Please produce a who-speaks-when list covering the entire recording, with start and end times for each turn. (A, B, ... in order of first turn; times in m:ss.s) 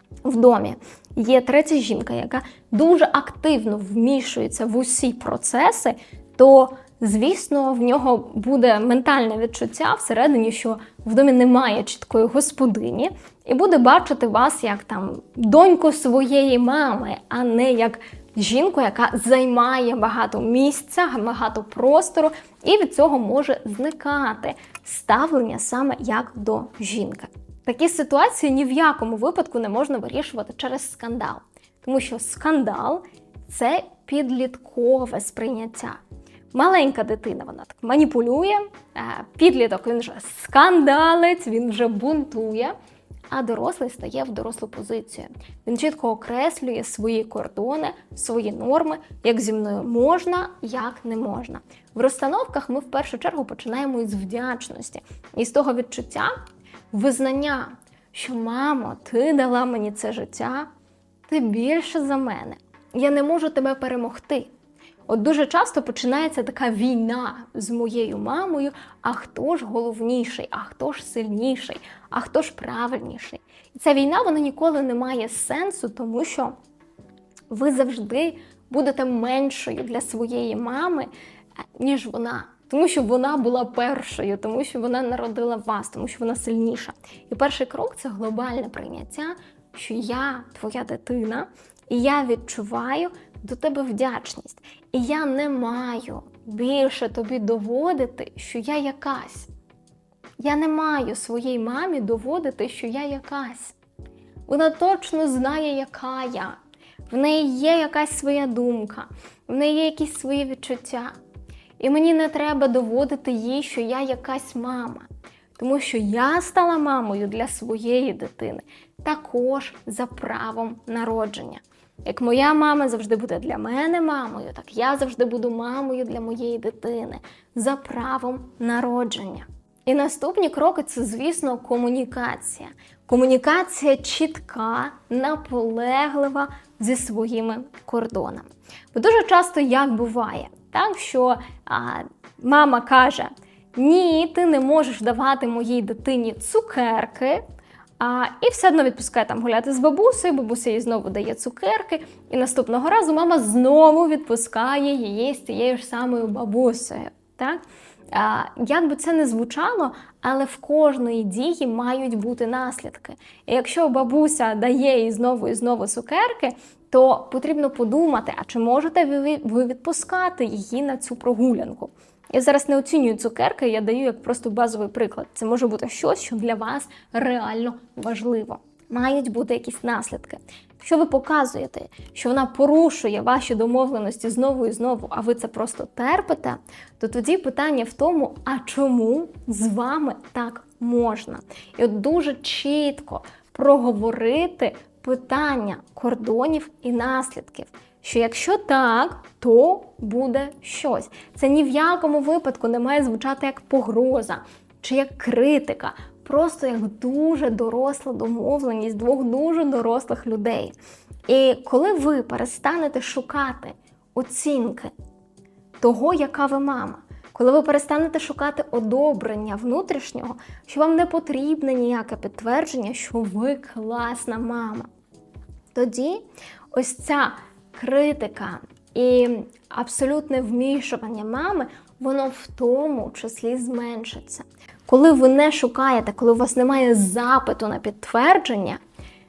0:00.2-0:36.0 A
0:36.5-0:42.8 A
0:43.3-0:56.3 A
0:56.9-1:00.7 A
1:01.3-1:04.5 A
1:05.1-1:16.5 A
1:17.5-1:21.1 A
1:21.8-1:39.5 A
1:40.4-1:43.8 A
1:44.5-1:46.6 A
1:47.1-1:51.1 A
1:51.8-2:27.4 A
2:28.0-2:37.6 A
2:38.1-3:30.7 A
3:31.3-3:34.9 A
3:35.8-3:44.9 A
3:45.7-3:58.8 A